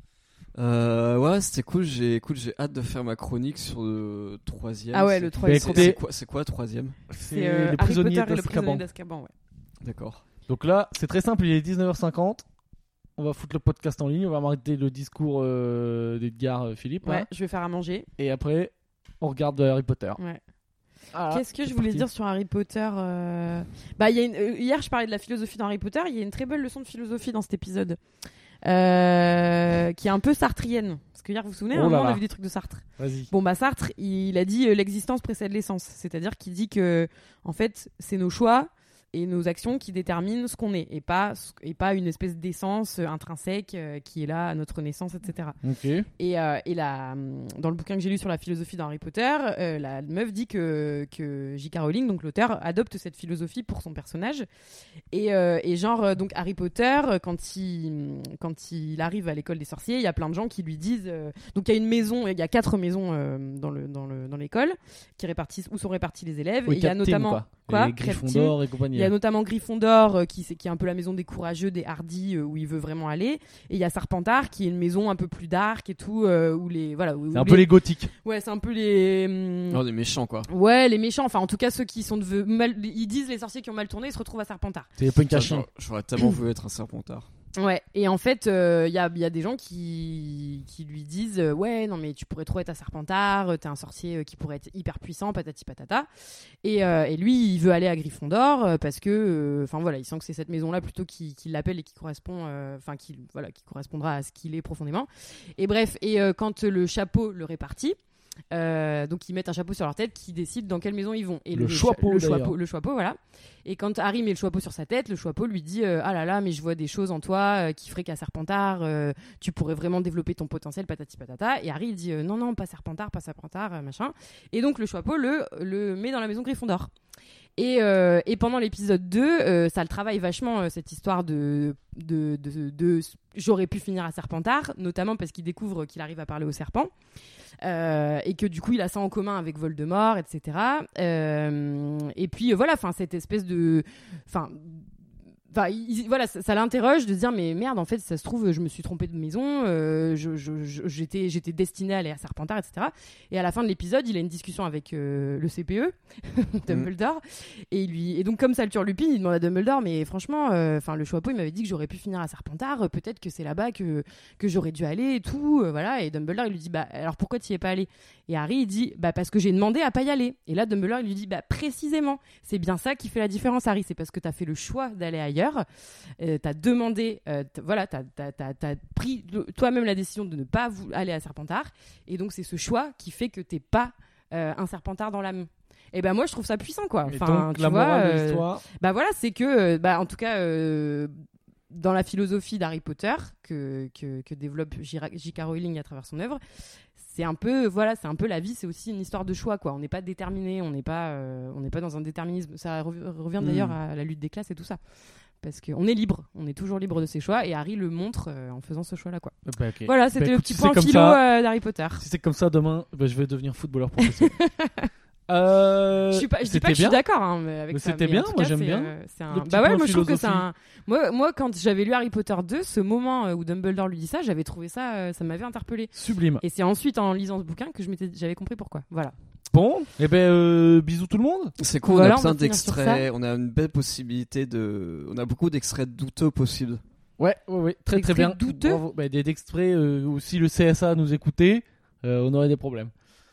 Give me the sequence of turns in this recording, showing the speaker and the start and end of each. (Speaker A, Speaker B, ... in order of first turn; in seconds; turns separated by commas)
Speaker A: 0.5-7.0, Speaker B: 4.9-6.0, Speaker C: 5.4-6.0, Speaker C: 7.1-8.8, Speaker B: 7.3-9.3, Speaker A: 9.8-10.2, Speaker C: 10.5-12.4, Speaker C: 13.2-17.3, Speaker B: 17.0-18.1, Speaker C: 18.2-20.2, Speaker C: 21.1-22.1, Speaker B: 21.3-28.0, Speaker B: 28.6-45.6, Speaker C: 31.7-32.2, Speaker C: 33.0-33.3, Speaker C: 45.6-46.1, Speaker B: 46.2-54.5, Speaker B: 55.1-79.8, Speaker C: 66.7-69.1, Speaker C: 77.3-78.1, Speaker A: 79.7-80.5, Speaker B: 80.5-84.9, Speaker C: 85.0-85.7, Speaker A: 85.3-87.3, Speaker B: 87.5-96.1, Speaker B: 96.6-108.0, Speaker B: 108.5-126.9, Speaker C: 111.5-112.5, Speaker B: 127.6-136.9, Speaker B: 137.6-144.8, Speaker B: 145.5-175.6, Speaker B: 176.2-191.1, Speaker C: 187.0-188.6, Speaker B: 191.7-196.4, Speaker B: 197.0-204.8, Speaker C: 203.4-203.7, Speaker B: 205.4-212.0, Speaker C: 209.4-211.2, Speaker C: 212.0-214.3, Speaker B: 214.0-214.9, Speaker C: 215.3-217.0, Speaker B: 216.1-229.1, Speaker C: 217.7-220.4, Speaker C: 225.9-226.4, Speaker C: 229.5-231.5, Speaker A: 231.6-236.8, Speaker B: 231.8-233.1, Speaker C: 237.2-242.9, Speaker B: 237.9-238.8